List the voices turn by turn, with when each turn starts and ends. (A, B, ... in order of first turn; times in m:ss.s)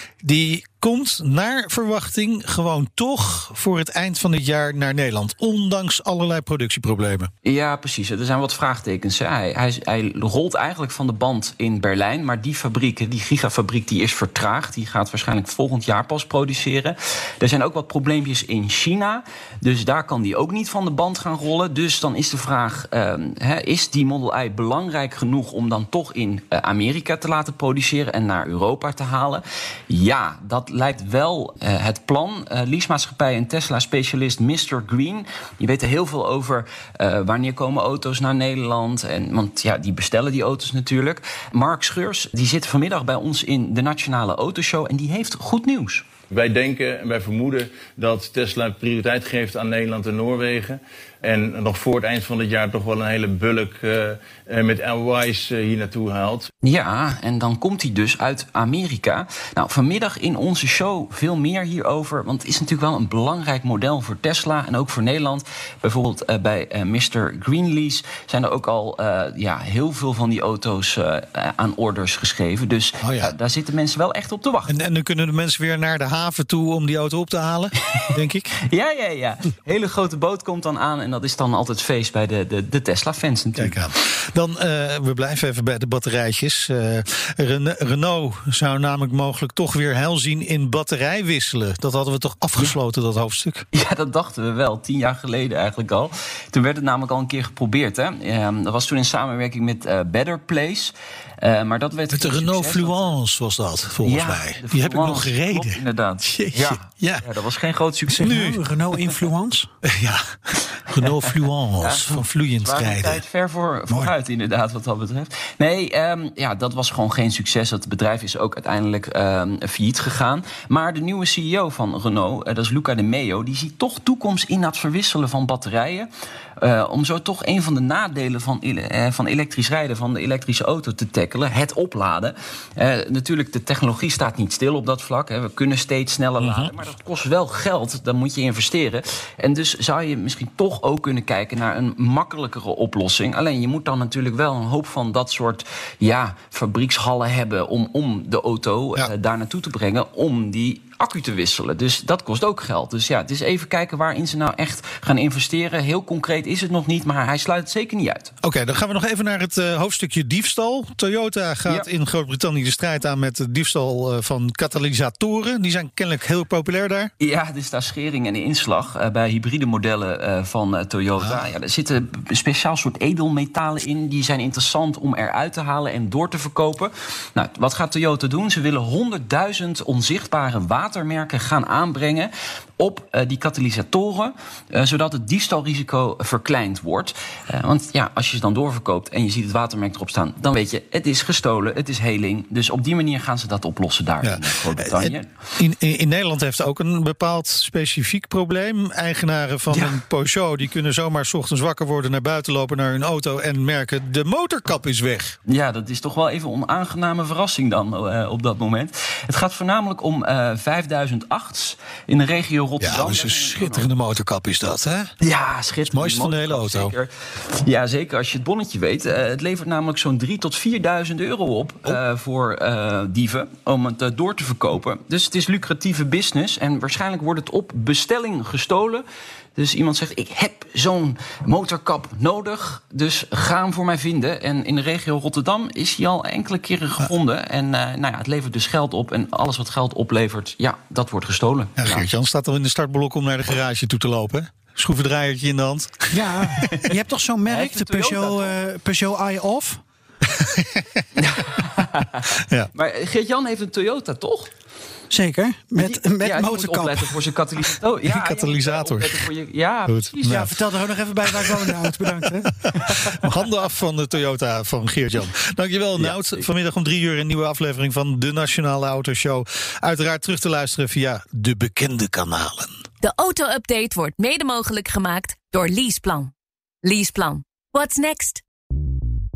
0:00.2-0:07.3 A
0:07.4-0:46.0 B
0:46.3-0:56.5 C
0:56.6-1:14.8 B
1:13.0-1:13.3 A
1:14.7-1:18.5 A
1:18.6-1:23.8 B
1:23.6-1:33.6 A
1:33.7-1:43.1 B
1:42.1-1:47.3 A
1:44.0-1:48.5 B
1:48.1-1:49.7 D
1:48.2-1:48.6 A
1:49.8-1:53.2 A
1:50.9-2:38.3 B
2:16.4-2:16.7 A
2:38.4-2:47.1 A
2:47.2-3:15.3 B
3:14.2-3:25.4 A
3:19.7-3:20.0 B
3:25.5-3:33.9 B
3:32.8-3:35.1 A
3:35.2-4:02.1 B
3:35.9-3:37.0 A
4:01.8-4:06.3 A
4:06.1-4:09.8 D
4:06.5-4:07.0 B
4:07.5-4:08.6 B
4:10.4-4:11.0 A
4:11.2-4:14.5 B
4:12.4-4:12.7 A
4:15.1-4:17.2 D
4:15.8-4:20.5 B
4:18.0-4:19.3 A
4:19.9-4:20.6 A
4:20.2-4:22.7 D
4:21.2-4:32.7 A
4:22.8-4:23.1 B
4:26.0-4:26.5 B
4:33.0-4:36.3 E
4:36.8-4:38.4 E